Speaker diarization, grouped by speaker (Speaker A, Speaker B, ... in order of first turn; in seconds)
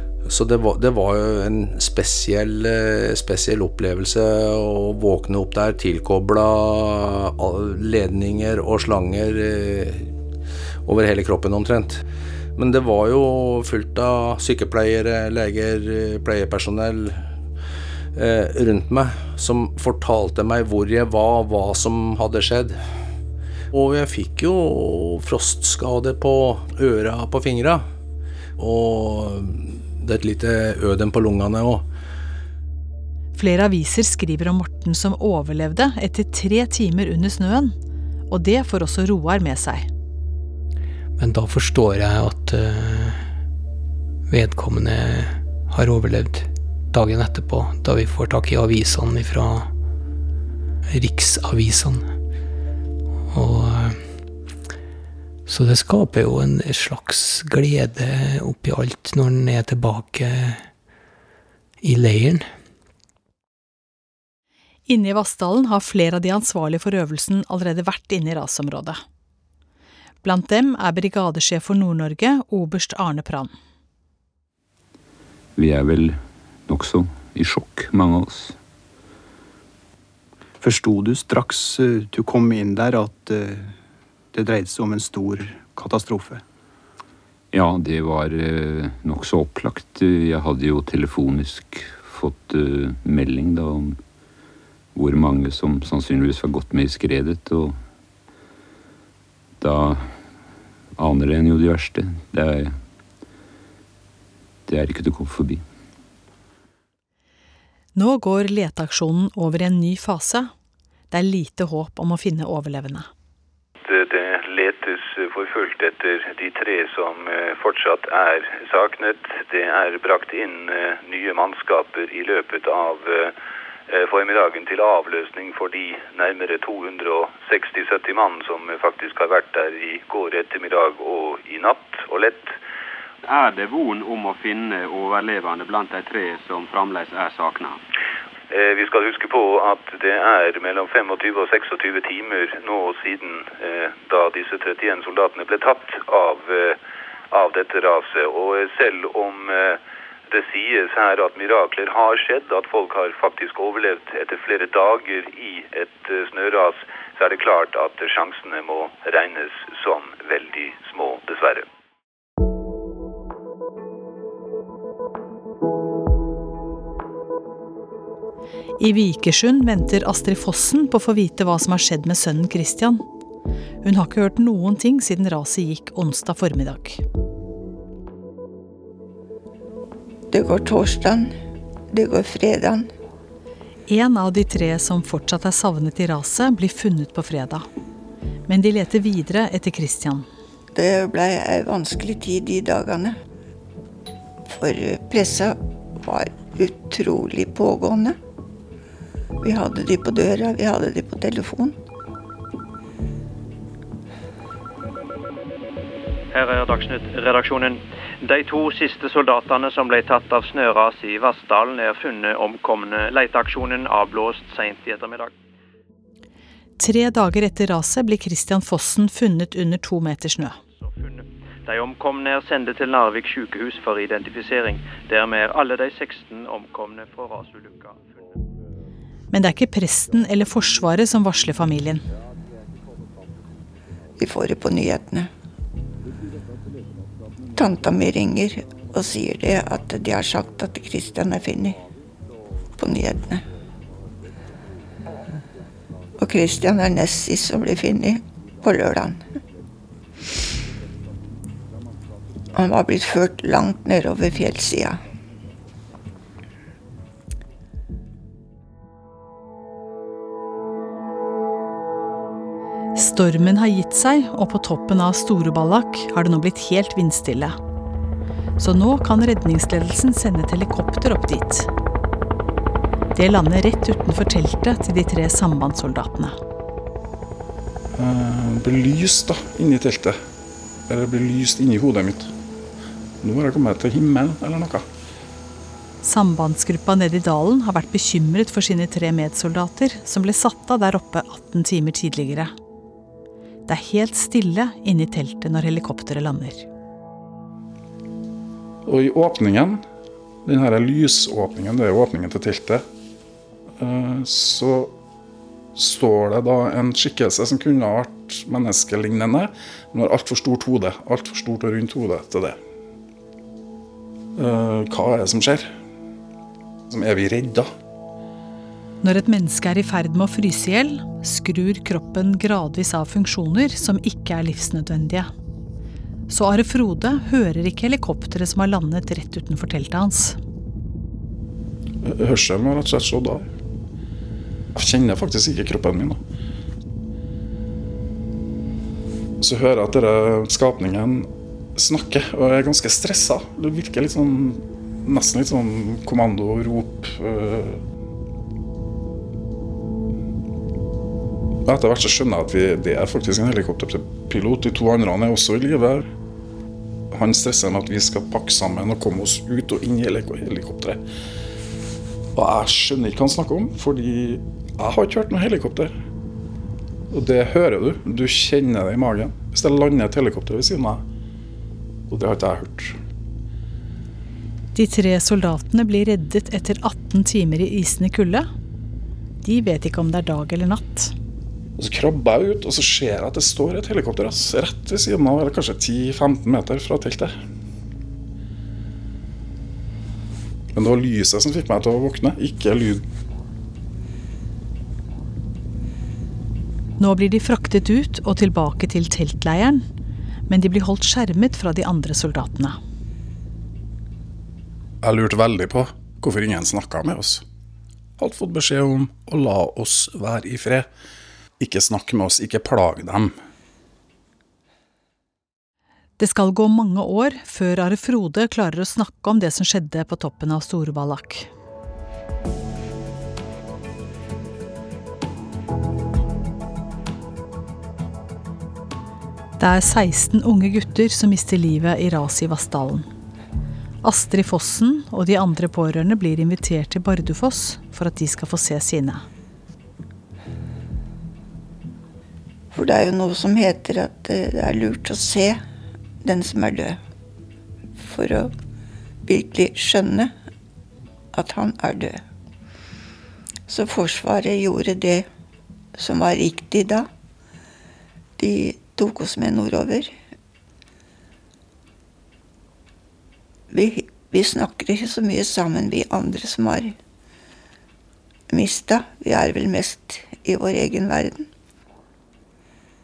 Speaker A: 0.2-10.1, 10.8-12.0, 12.6-17.3, 18.1-22.8, 23.7-27.9, 28.6-31.8
Speaker B: 33.3-37.8, 38.3-39.9, 64.9-69.0, 70.2-73.5, 108.0-110.5, 111.1-113.1, 168.8-173.0, 173.8-177.0, 183.9-187.7, 188.5-190.3, 216.8-220.6, 229.3-232.0, 262.9-267.6, 268.6-271.7, 273.1-276.4, 286.0-292.5, 293.7-296.7, 319.0-325.3, 326.3-330.4, 374.7-378.4, 379.4-381.1, 397.0-399.8, 400.5-402.8, 416.2-421.5, 429.6-433.1, 434.0-439.2
Speaker C: 41.2-43.2, 44.3-49.7, 50.9-52.1, 53.3-54.1, 55.5-60.7, 61.8-62.5
Speaker D: 75.5-78.5, 87.5-94.0, 94.9-97.8, 99.6-100.1, 101.0-102.8, 104.7-105.6
Speaker E: 80.6-83.7, 84.3-86.4
Speaker F: 113.8-123.3, 123.9-132.5, 138.5-146.8, 147.3-149.8, 150.3-161.7
Speaker G: 133.2-137.8
Speaker H: 180.3-181.3, 181.9-182.9, 190.7-193.2, 194.5-198.2, 199.4-201.8, 234.2-235.3, 237.5-241.8, 242.8-243.4, 246.2-249.2, 252.5-255.0, 442.7-445.6, 446.2-447.0, 448.0-448.5, 449.2-450.3, 451.3-452.2, 453.7-455.2, 455.9-457.1, 458.4-460.1, 463.7-466.9, 468.5-471.5
Speaker I: 206.3-215.3, 220.8-228.0
Speaker J: 277.9-280.2, 280.9-282.3, 283.2-284.9, 298.9-299.8, 300.4-302.8, 303.8-304.9, 305.7-312.6, 314.4-315.7, 316.9-317.7, 332.0-333.5, 334.7-336.2, 339.4-347.8, 351.6-356.1, 357.1-361.0, 362.3-365.9, 367.1-371.0, 372.1-373.0, 381.8-387.3, 390.7-393.0, 405.0-407.4, 408.2-410.9, 411.6-413.3